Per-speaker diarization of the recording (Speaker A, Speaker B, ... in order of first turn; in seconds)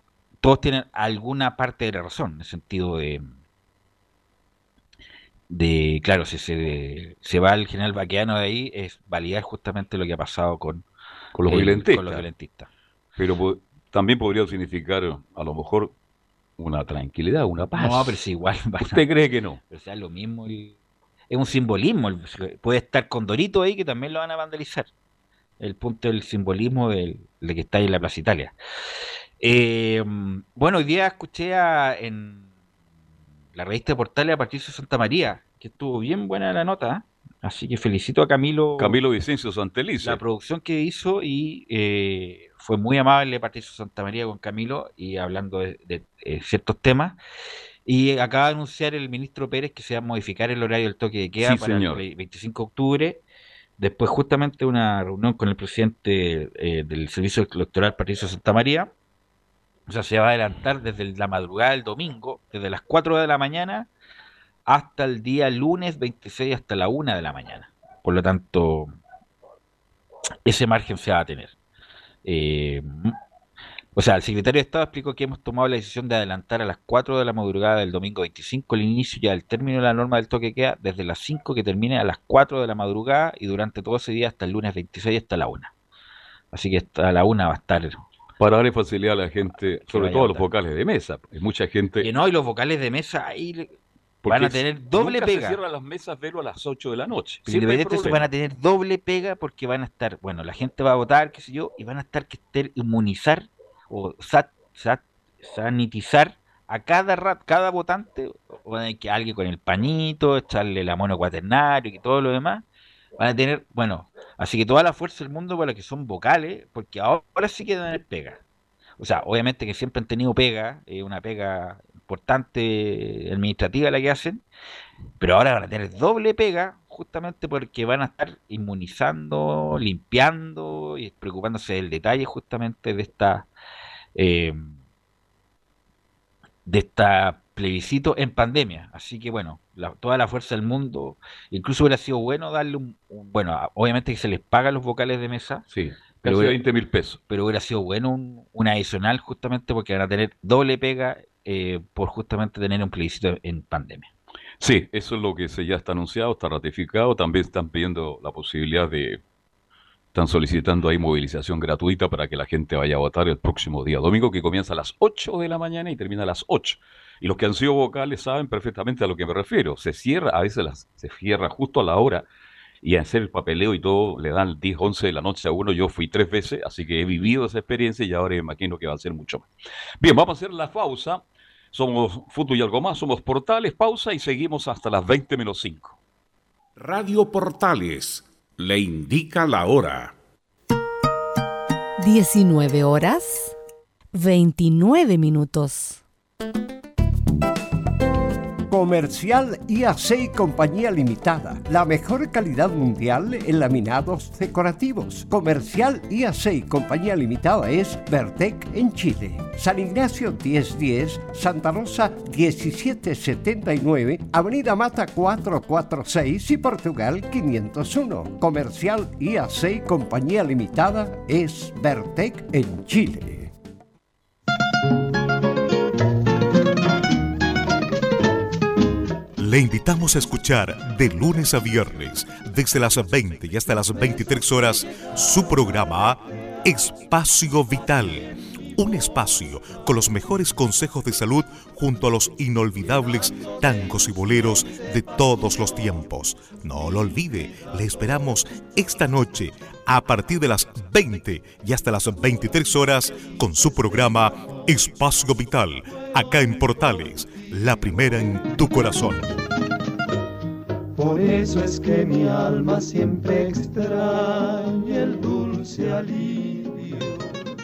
Speaker A: 0.4-3.3, 5.5-10.8, 11.5-12.7, 17.7-19.1, 19.7-20.8, 21.3-24.9, 25.6-28.6, 29.4-32.5, 33.5-39.0, 40.0-47.2, 47.9-53.2, 53.8-58.9, 59.9-63.9, 64.7-69.0, 70.5-71.5, 72.2-73.2, 74.0-85.7, 86.5-88.0, 89.8-90.5, 92.0-93.7, 94.3-95.6, 97.5-112.7, 113.2-118.4, 119.0-124.4, 125.2-133.5, 134.2-134.8, 136.7-145.7, 146.2-146.6, 147.3-154.1
Speaker B: 11.3-12.3, 13.2-15.9, 16.6-18.2, 18.8-19.6, 38.8-40.2, 51.4-52.0, 88.4-92.1, 94.2-98.3, 145.7-147.2, 154.6-159.2, 160.1-172.3, 172.8-179.5, 180.0-186.0
Speaker C: 186.8-190.1
Speaker D: 192.0-193.5, 194.1-196.0
Speaker E: 198.7-223.5
Speaker F: 229.4-259.3
Speaker G: 260.9-267.3